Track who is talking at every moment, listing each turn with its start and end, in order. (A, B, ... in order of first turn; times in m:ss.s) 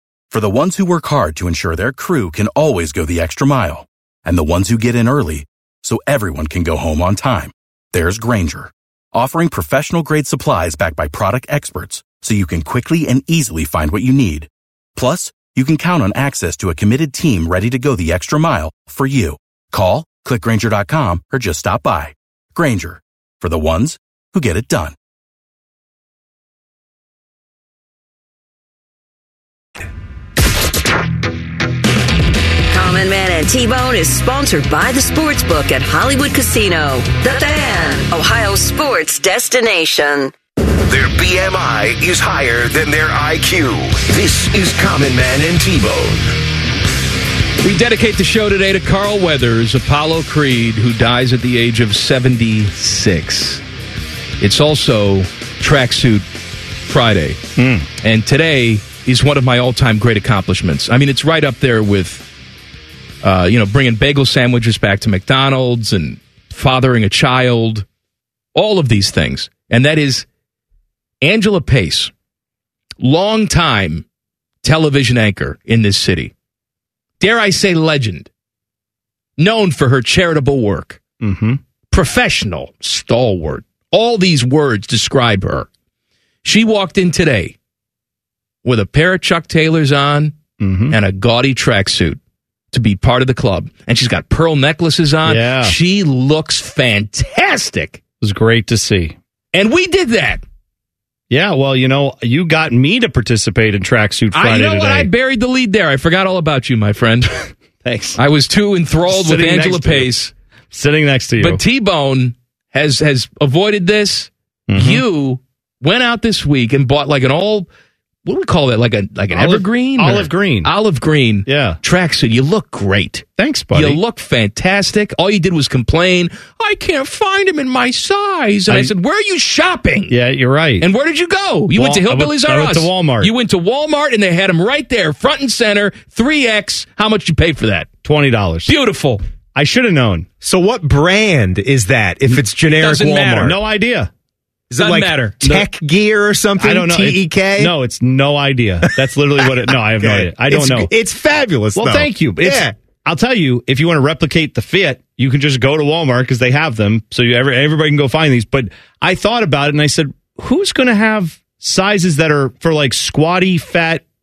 0:00.3-0:24.9 A
0:32.7-0:40.3 B
0:40.9-0:46.3 C
0:47.6-0:53.6 D
0:54.4-0:56.2 D
0:56.8-0:57.4 D
0:57.6-0:57.9 E
0:58.0-1:02.2 D
1:03.2-1:07.9 D
1:08.5-1:10.2 D
1:11.2-1:12.1 D
1:13.0-1:14.0 D
1:14.6-1:16.3 D
1:17.2-1:18.3 D
1:19.4-1:21.0 D
1:21.2-1:21.6 E
1:21.9-1:25.7 D
1:26.4-1:27.6 D
1:28.6-1:30.4 D
1:30.6-1:31.0 E
1:30.9-1:32.2 D
1:32.7-1:38.0 D
1:35.2-1:35.8 E
1:38.2-1:39.2 E
1:39.5-1:40.4 D
1:41.3-1:45.1 E
1:44.3-1:47.3 D
1:47.8-1:48.2 E
1:48.2-1:50.3 D
1:49.1-1:50.1 E
1:50.7-1:51.6 E
1:51.4-1:57.7 D
1:54.7-1:55.0 E
1:58.2-2:10.1 D
1:59.3-2:00.7 E
2:01.5-2:01.8 E
2:03.4-2:04.0 E
2:10.1-2:10.9 E
2:10.8-2:17.9 D
2:11.7-2:13.3 E
2:18.0-2:18.7 E
2:18.6-2:19.2 D
2:19.5-2:20.3 E
2:20.4-2:23.6 F
2:22.7-2:23.5 D
2:23.4-2:24.1 E
2:24.7-2:27.7 F
2:24.8-2:25.4 D
2:26.6-2:30.9 E
2:29.7-2:32.7 F
2:31.8-2:44.0 E